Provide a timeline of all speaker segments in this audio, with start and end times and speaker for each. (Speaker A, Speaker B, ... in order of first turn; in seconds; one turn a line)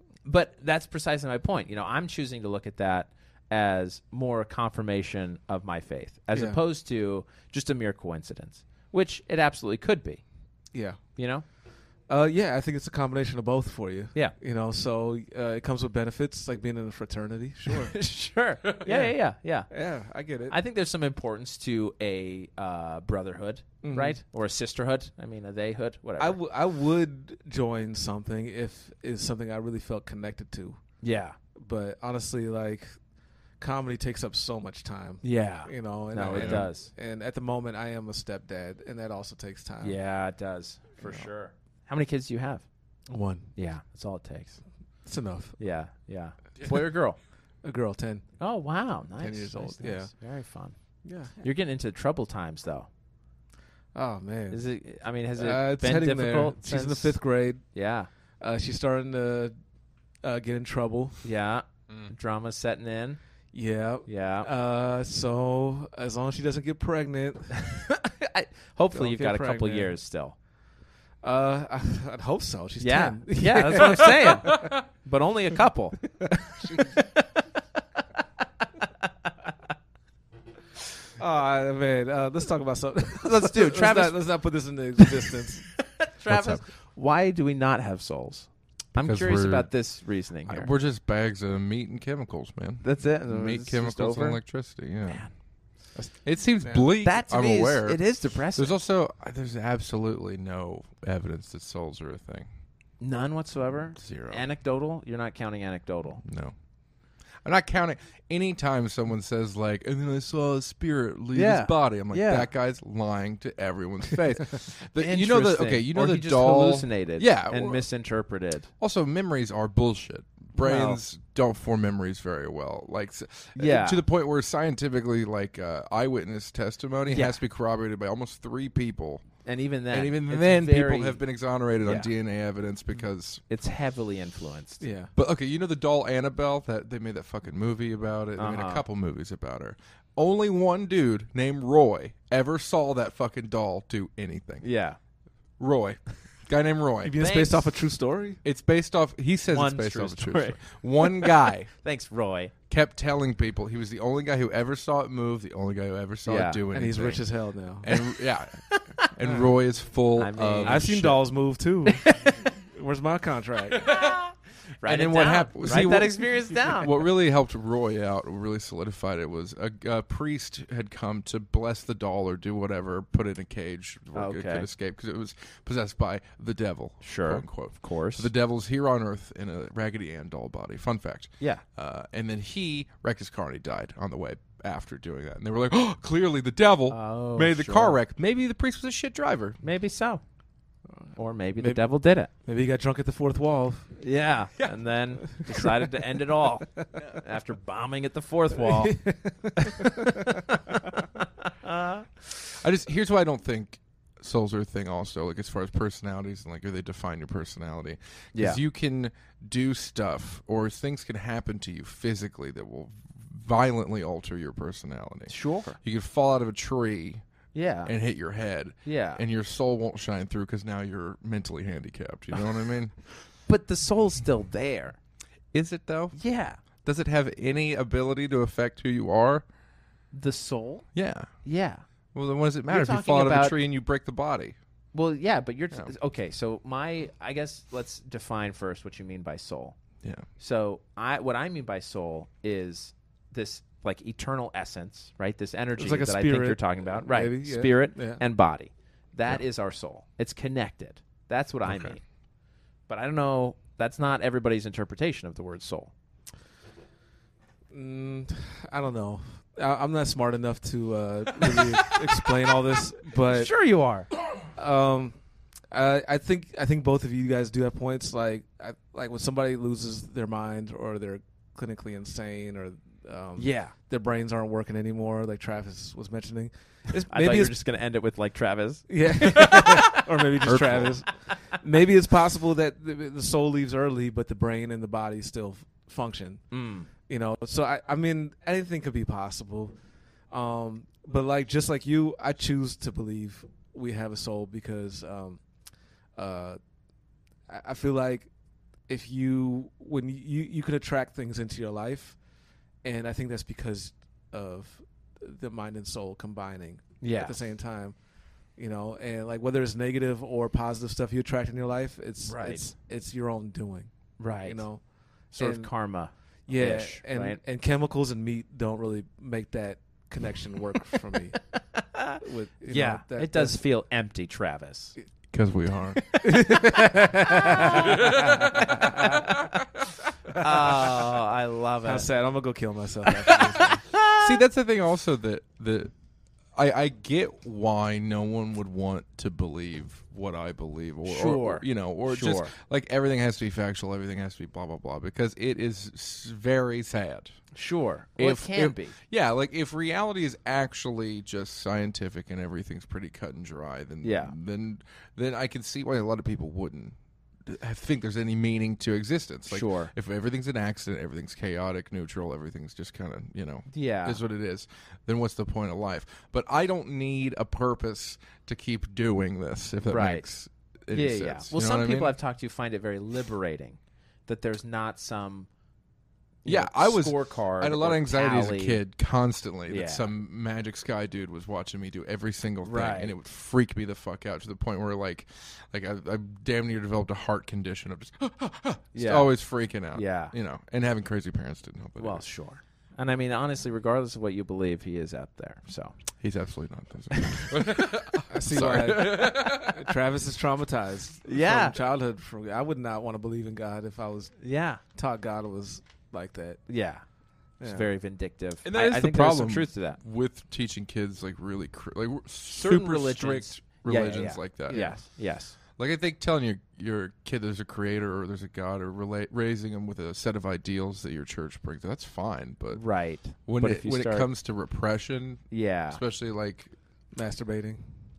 Speaker A: 0.2-10.2
Speaker B: 6.3-6.6
Speaker B: 10.7-11.0
Speaker A: 11.2-11.4
Speaker B: 12.1-17.9
Speaker A: 17.7-19.7
Speaker B: 18.8-19.1
Speaker B: 19.7-20.6
Speaker A: 20.5-26.4
Speaker B: 23.8-24.2
Speaker B: 26.2-30.8
Speaker A: 31.0-31.4
Speaker B: 31.6-32.9
Speaker B: 33.6-40.0
Speaker A: 35.2-36.9
Speaker C: 36.3-36.7
Speaker A: 39.8-42.6
Speaker B: 41.0-41.3
Speaker B: 43.1-43.5
Speaker A: 43.5-44.6
Speaker B: 45.0-45.6
Speaker A: 45.6-47.2
Speaker B: 47.6-48.2
Speaker A: 48.4-50.7
Speaker B: 49.2-50.1
Speaker B: 51.0-51.3
Speaker A: 51.4-52.9
Speaker B: 53.9-54.6
Speaker A: 54.5-57.2
Speaker B: 55.4-57.6
Speaker A: 57.7-58.1
Speaker B: 58.4-59.5
Speaker B: 60.2-61.2
Speaker A: 61.2-63.2
Speaker B: 63.5-67.8
Speaker A: 64.1-64.5
Speaker A: 67.6-70.3
Speaker B: 68.9-69.9
Speaker B: 71.2-74.8
Speaker A: 72.8-76.0
Speaker B: 76.2-77.1
Speaker A: 78.8-79.1
Speaker B: 81.2-85.7
Speaker A: 83.2-84.2
Speaker A: 85.0-90.7
Speaker C: 86.3-86.6
Speaker C: 89.0-89.7
Speaker C: 90.5-95.3
Speaker A: 92.8-94.4
Speaker A: 95.0-95.3
Speaker B: 95.9-96.9
Speaker C: 96.2-102.5
Speaker A: 97.0-98.8
Speaker A: 103.0-106.2
Speaker C: 104.0-104.5
Speaker C: 106.2-106.5
Speaker C: 107.4-117.9
Speaker A: 111.3-112.5
Speaker A: 115.0-118.7
Speaker C: 118.8-129.2
Speaker A: 120.6-121.0
Speaker A: 123.5-124.0
Speaker A: 127.1-127.3
Speaker A: 129.4-131.2
Speaker C: 129.9-133.4
Speaker A: 131.8-132.1
Speaker A: 133.5-134.8
Speaker B: 134.8-135.1
Speaker C: 135.2-144.6
Speaker A: 138.4-138.8
Speaker A: 144.6-145.0
Speaker C: 145.6-147.2
Speaker B: 147.0-148.4
Speaker A: 147.2-147.7
Speaker C: 148.4-151.7
Speaker A: 149.5-152.5
Speaker C: 152.7-157.2
Speaker A: 156.2-156.6
Speaker B: 156.7-157.9
Speaker C: 157.8-161.2
Speaker A: 158.7-159.1
Speaker A: 160.2-160.8
Speaker B: 160.6-164.0
Speaker A: 161.9-162.4
Speaker A: 163.9-166.9
Speaker C: 164.8-189.6
Speaker A: 174.1-174.7
Speaker A: 177.0-178.3
Speaker A: 186.9-188.0
Speaker A: 189.6-190.2
Speaker B: 190.9-191.8
Speaker A: 191.2-192.3
Speaker B: 192.4-193.9
Speaker A: 194.0-199.0
Speaker B: 195.4-195.9
Speaker B: 198.6-200.4
Speaker A: 199.6-202.1
Speaker C: 202.6-217.2
Speaker A: 208.3-208.6
Speaker A: 215.3-215.8
Speaker A: 217.5-217.9
Speaker C: 217.8-222.9
Speaker A: 218.8-219.2
Speaker A: 223.4-225.0
Speaker C: 225.5-229.4
Speaker A: 226.1-226.6
Speaker A: 230.1-230.9
Speaker C: 230.9-231.3
Speaker A: 231.4-231.8
Speaker C: 232.1-234.6
Speaker A: 232.7-233.5
Speaker A: 234.9-239.8
Speaker A: 240.4-252.0
Speaker B: 245.8-248.2
Speaker C: 251.7-251.9
Speaker A: 252.9-255.9
Speaker B: 257.7-263.5
Speaker A: 263.2-264.1
Speaker B: 264.6-265.1
Speaker B: 265.7-277.5
Speaker A: 273.4-273.7
Speaker A: 277.1-280.1
Speaker B: 278.9-286.4
Speaker C: 280.4-280.9
Speaker A: 286.5-286.9
Speaker B: 287.1-289.7
Speaker B: 290.3-295.4
Speaker B: 296.1-296.6
Speaker B: 297.5-298.3
Speaker B: 298.9-302.1
Speaker B: 302.8-307.9
Speaker A: 307.0-307.4
Speaker B: 308.6-313.9
Speaker A: 312.3-312.7
Speaker A: 314.2-314.6
Speaker B: 314.4-314.8
Speaker A: 315.3-317.4
Speaker B: 315.4-315.7
Speaker B: 316.5-321.4
Speaker A: 321.5-324.9
Speaker B: 322.2-323.6
Speaker C: 325.3-326.0
Speaker A: 326.0-332.1
Speaker B: 326.2-329.2
Speaker C: 327.8-328.4
Speaker B: 330.3-331.1
Speaker B: 331.8-333.9
Speaker A: 333.2-334.3
Speaker C: 334.2-335.9
Speaker C: 336.5-347.3
Speaker A: 341.0-342.5
Speaker A: 347.5-348.9
Speaker C: 348.2-372.1
Speaker A: 354.0-354.3
Speaker A: 359.5-359.9
Speaker A: 363.7-364.2
Speaker A: 369.9-370.3
Speaker A: 370.9-375.5
Speaker A: 376.4-378.8
Speaker C: 376.4-392.2
Speaker A: 379.7-380.1
Speaker A: 382.6-383.1
Speaker A: 388.9-389.3
Speaker A: 389.9-390.3
Speaker A: 392.0-395.9
Speaker C: 396.2-399.8
Speaker A: 397.1-397.5
Speaker B: 398.3-406.6
Speaker A: 401.3-401.8
Speaker A: 404.4-404.8
Speaker A: 406.7-407.0
Speaker B: 407.6-407.9
Speaker A: 407.6-410.0
Speaker C: 408.6-414.9
Speaker A: 412.4-415.6
Speaker B: 414.7-415.0
Speaker C: 415.8-426.7
Speaker A: 422.7-424.3
Speaker A: 425.5-426.0
Speaker B: 427.1-427.9